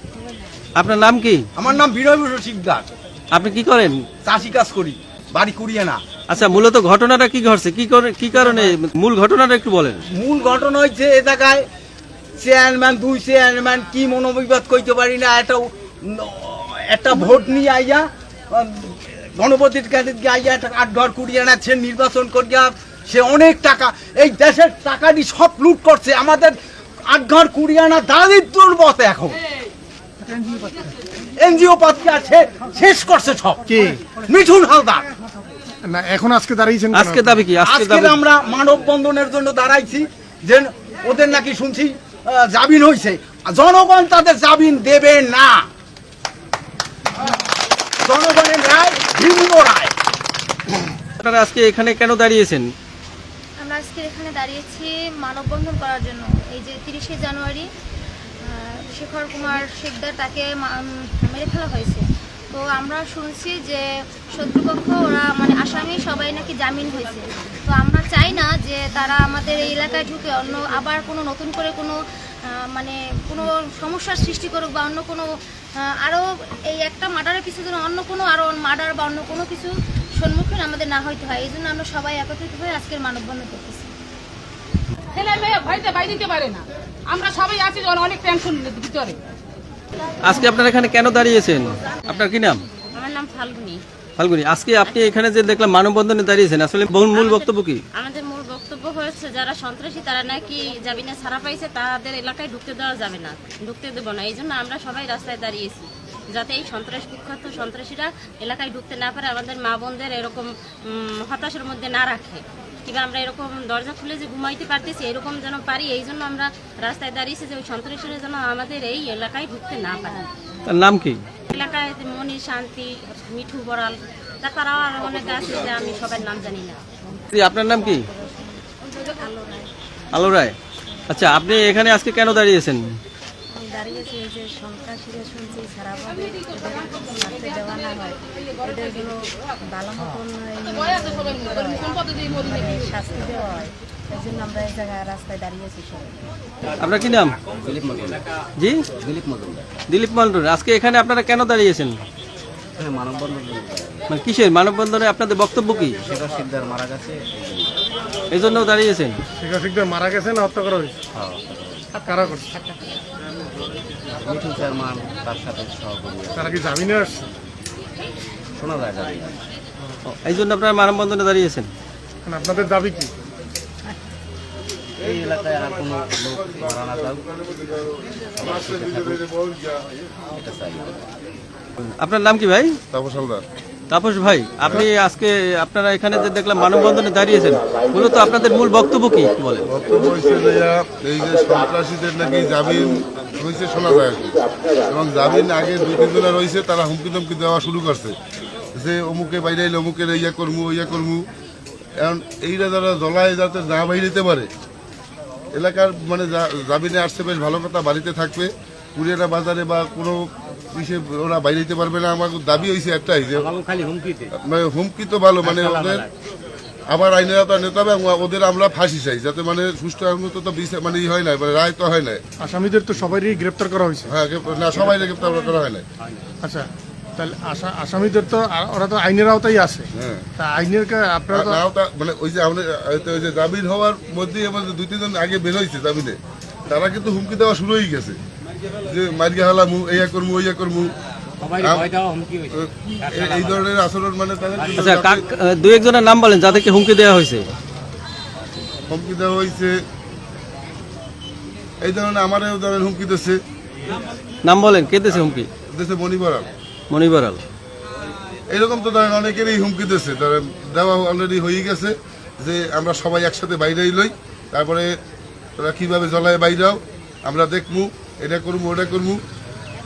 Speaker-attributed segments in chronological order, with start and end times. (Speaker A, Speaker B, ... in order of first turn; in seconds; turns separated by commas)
Speaker A: 0.8-1.4, Speaker B: 1.6-2.9, Speaker A: 3.3-4.0, Speaker B: 4.2-6.0, Speaker A: 6.3-10.0, Speaker B: 10.1-11.7, Speaker B: 12.4-29.4, Speaker C: 30.3-30.9, Speaker B: 31.4-33.6, Speaker C: 33.7-34.1, Speaker B: 34.2-35.0, Speaker C: 35.8-37.4, Speaker A: 36.9-38.2, Speaker B: 37.6-45.6, Speaker B: 48.0-49.9, Speaker A: 51.2-52.7, Speaker D: 53.6-57.7, Speaker D: 58.5-83.9, Speaker E: 85.1-89.2, Speaker A: 90.2-92.6, Speaker F: 92.9-93.8, Speaker A: 94.2-97.8, Speaker F: 94.8-95.2, Speaker F: 97.1-120.3, Speaker A: 120.7-121.2, Speaker F: 121.5-126.8, Speaker A: 127.3-128.1, Speaker G: 127.7-129.7, Speaker A: 130.1-130.6, Speaker A: 131.1-132.8, Speaker G: 133.5-146.2, Speaker E: 140.7-142.8, Speaker A: 146.8-147.4, Speaker H: 147.5-148.2, Speaker H: 149.0-149.7, Speaker A: 149.9-152.0, Speaker H: 152.8-154.1, Speaker A: 154.1-155.9, Speaker H: 156.0-157.8, Speaker A: 158.3-159.2, Speaker C: 159.4-161.0, Speaker H: 161.1-161.9, Speaker C: 161.9-162.5, Speaker H: 164.2-166.7, Speaker C: 166.3-167.3, Speaker H: 168.5-169.4, Speaker A: 170.1-171.7, Speaker C: 172.3-173.1, Speaker H: 175.0-177.2, Speaker I: 177.4-179.9, Speaker H: 178.3-179.2, Speaker H: 180.3-181.1, Speaker A: 182.0-182.8, Speaker I: 182.9-183.4, Speaker A: 183.9-189.7, Speaker I: 184.6-184.9, Speaker I: 189.7-198.2, Speaker I: 198.8-201.3, Speaker I: 202.0-204.5, Speaker I: 205.5-213.5, Speaker G: 213.4-214.3, Speaker I: 214.4-216.1, Speaker G: 215.5-215.8, Speaker I: 216.9-222.2, Speaker C: 222.4-224.1, Speaker I: 224.1-225.9, Speaker C: 226.4-231.6, Speaker I: 230.0-230.2, Speaker I: 231.3-238.2, Speaker I: 238.8-240.9, Speaker G: 241.4-242.5, Speaker I: 241.6-241.9, Speaker I: 242.5-245.2, Speaker A: 244.7-247.5, Speaker I: 248.9-249.8, Speaker I: 251.8-253.4, Speaker A: 254.4-255.5, Speaker I: 255.7-256.5, Speaker A: 256.9-257.4, Speaker I: 258.5-264.9, Speaker I: 265.6-269.2